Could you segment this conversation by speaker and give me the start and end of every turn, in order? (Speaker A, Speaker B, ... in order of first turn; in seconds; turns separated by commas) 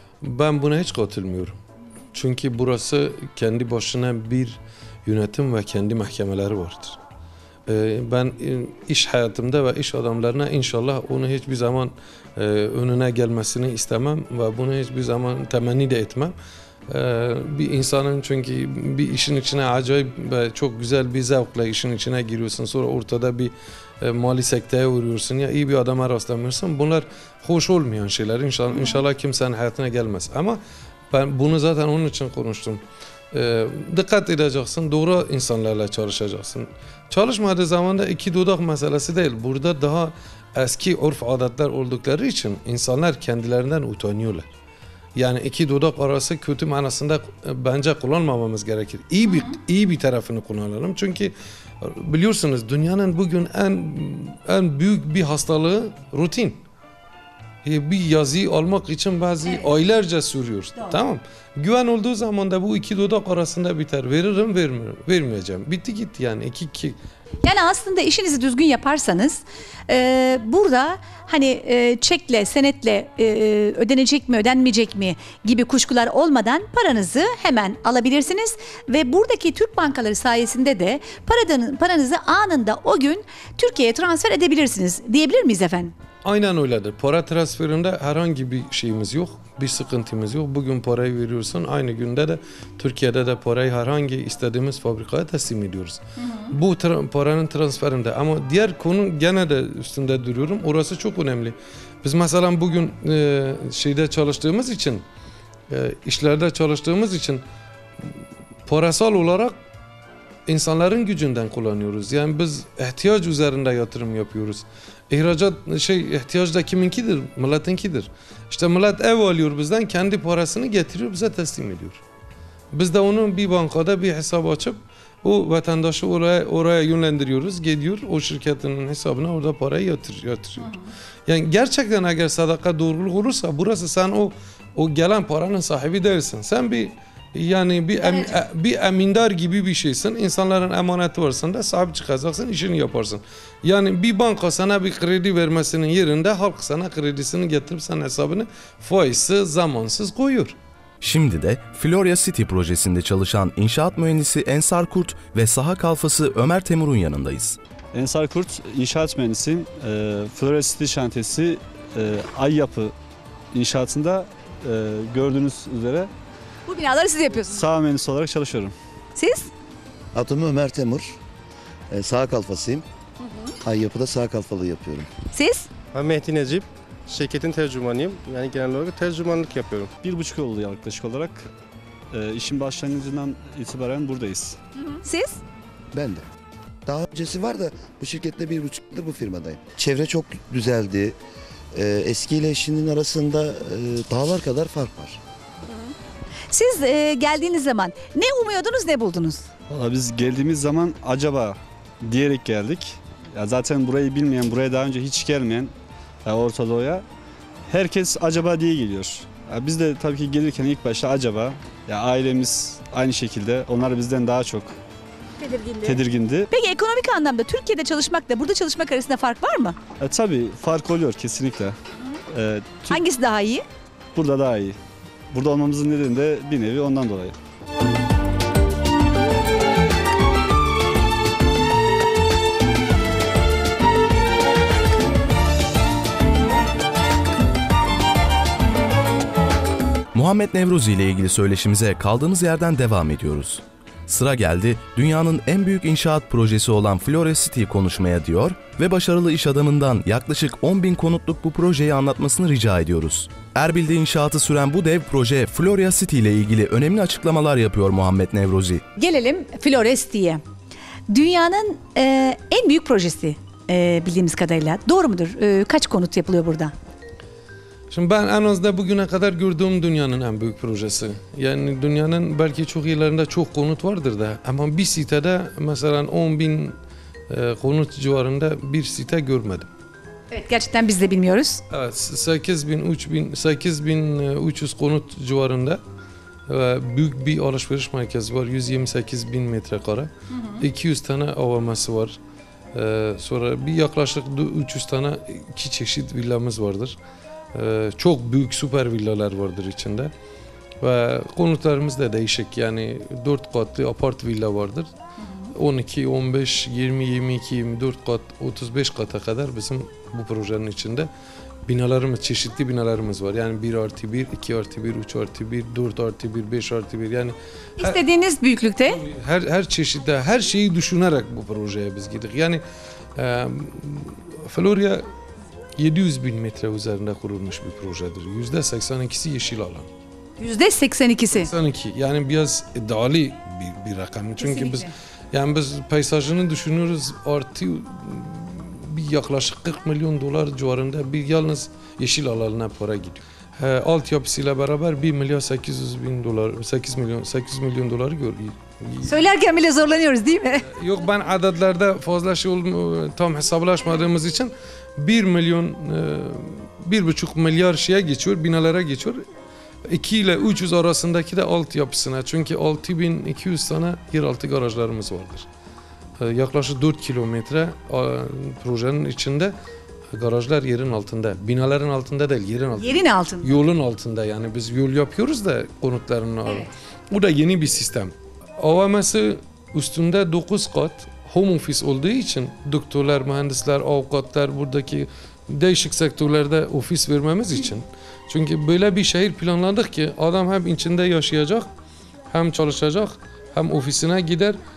Speaker A: 0.2-1.6, Speaker A: 2.1-7.0, Speaker A: 7.7-16.4, Speaker A: 16.9-30.6, Speaker A: 31.1-44.5, Speaker A: 45.1-56.6, Speaker A: 57.6-67.0, Speaker B: 67.4-85.9, Speaker A: 86.2-105.0, Speaker B: 96.2-96.5, Speaker A: 105.7-107.4, Speaker A: 108.7-109.5, Speaker A: 110.5-122.0, Speaker A: 122.7-130.7, Speaker B: 130.6-130.9, Speaker A: 131.3-150.6, Speaker B: 138.0-138.4, Speaker C: 151.0-157.6, Speaker D: 157.9-162.9, Speaker D: 163.5-166.1, Speaker B: 166.7-167.6, Speaker D: 167.5-168.7, Speaker B: 169.1-169.5, Speaker E: 170.1-171.2, Speaker E: 171.9-172.9, Speaker E: 173.6-175.1, Speaker B: 175.3-175.7, Speaker F: 175.9-179.9, Speaker D: 180.0-181.5, Speaker D: 182.1-184.6, Speaker B: 184.8-185.4, Speaker E: 185.9-186.2, Speaker E: 186.9-191.2, Speaker E: 191.7-195.2, Speaker B: 196.5-199.5, Speaker D: 199.7-205.7, Speaker D: 206.2-207.0, Speaker D: 207.7-214.8, Speaker B: 215.4-219.8, Speaker D: 215.8-216.5, Speaker D: 220.0-221.8, Speaker D: 222.3-223.0, Speaker B: 222.9-223.6, Speaker D: 224.1-224.8, Speaker D: 225.3-227.3, Speaker C: 240.1-258.8, Speaker B: 259.0-260.4, Speaker B: 261.1-266.7, Speaker A: 267.9-276.8, Speaker A: 277.3-279.7, Speaker B: 280.3-281.6, Speaker A: 281.7-285.8, Speaker A: 286.5-292.2, Speaker B: 290.3-290.6, Speaker A: 292.7-297.0, Speaker A: 297.5-300.1, Speaker A: 300.8-304.9, Speaker B: 305.2-305.5, Speaker A: 305.6-311.1, Speaker A: 311.6-318.0, Speaker B: 317.8-319.0, Speaker A: 318.9-322.6, Speaker A: 323.1-325.1, Speaker A: 325.8-329.9, Speaker B: 330.4-331.5, Speaker A: 331.3-349.3, Speaker B: 334.4-334.9, Speaker B: 349.0-350.7, Speaker A: 350.7-359.2, Speaker A: 359.9-365.5, Speaker A: 366.2-369.5, Speaker A: 370.1-391.7, Speaker B: 372.8-373.5, Speaker A: 392.3-394.6